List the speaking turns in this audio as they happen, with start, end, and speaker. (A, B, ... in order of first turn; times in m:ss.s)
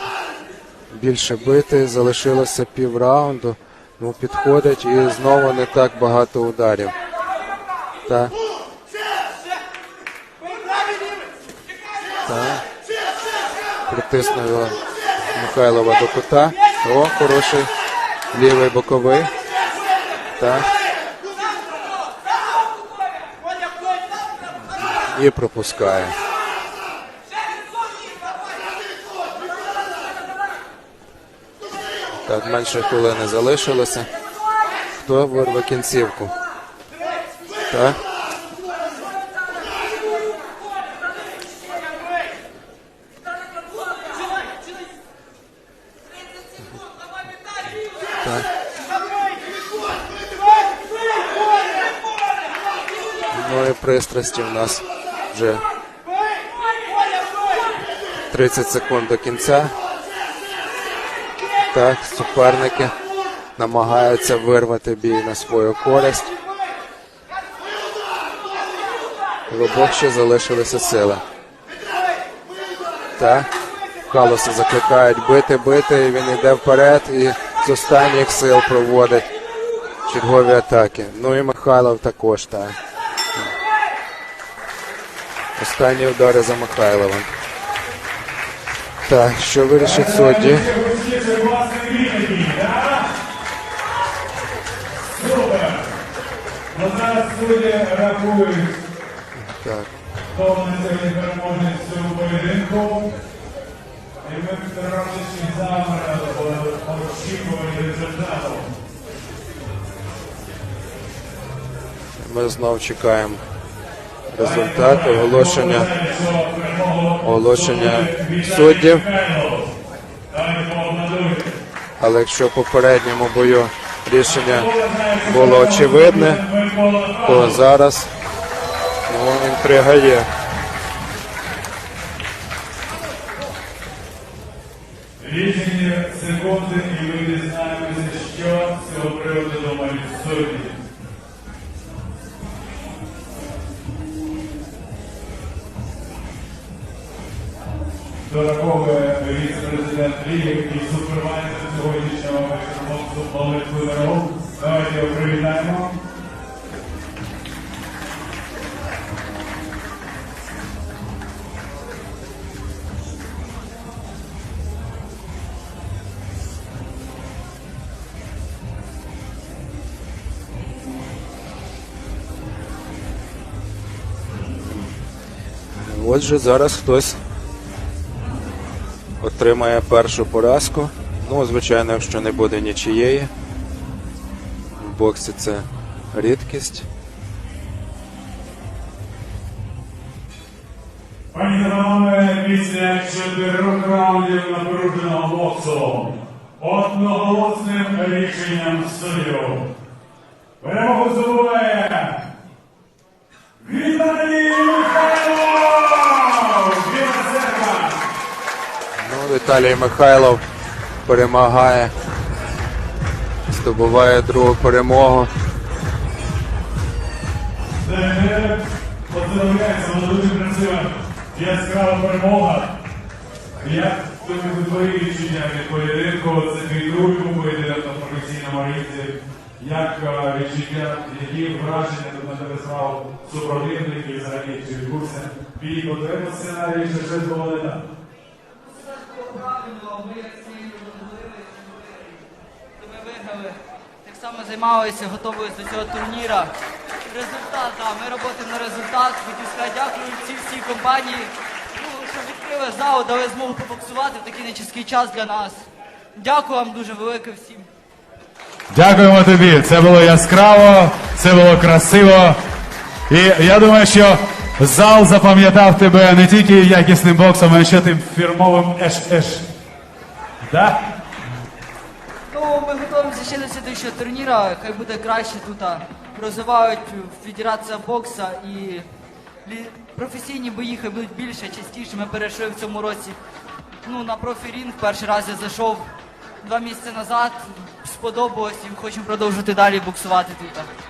0:00.9-0:06.9 A
0:08.0-0:08.3 A
0:12.2-0:12.6 A
0:13.9-0:14.8 A
0:15.3-0:17.7 A
0:18.3-0:19.3 A
0:20.4-0:20.7 A
0:25.1-0:26.1 A
0:32.2-0:34.1 A
0:34.9-0:36.3 A
0:37.7-0:38.0 A
0:48.2-0:48.5 A
0:53.3-0:55.6 A
0:58.3-0:59.7 A
1:01.7-1:02.9 A
1:03.6-1:06.3 A
1:09.5-1:11.2 A
1:13.2-1:13.5 A
1:14.1-1:19.2 A
1:20.0-1:22.8 A
1:25.6-1:27.3 A
1:29.0-1:30.7 A
1:29.8-1:33.1 B
1:35.1-1:35.9 B
1:36.7-1:38.8 B
1:39.3-1:39.9 A
1:40.3-1:43.1 B
1:44.2-1:48.7 B
1:52.2-1:53.4 A
1:54.3-1:55.9 A
1:54.4-1:59.7 B
1:57.2-1:59.0 A
2:00.3-2:01.6 B
2:02.0-2:04.7 A
2:04.2-2:07.6 B
2:05.2-2:06.4 A
2:07.2-2:08.1 A
2:09.1-2:10.3 A
2:15.2-2:20.8 B
2:28.2-2:36.0 B
2:55.7-2:57.2 A
2:59.2-3:03.3 A
3:04.7-3:06.9 A
3:11.3-3:19.7 B
3:20.6-3:22.2 B
3:23.6-3:28.0 B
3:29.0-3:30.4 A
3:31.0-3:31.9 A
3:33.4-3:35.3 A
3:37.8-3:42.7 B
3:43.6-3:57.8 B
3:58.5-4:02.3 C
4:02.8-4:06.5 C
4:07.0-4:15.6 C
4:16.1-4:17.7 C
4:18.7-4:22.4 B
4:23.1-4:29.4 B
4:30.4-4:30.8 B
4:32.3-4:38.9 C
4:39.4-4:43.2 C
4:43.8-4:50.7 C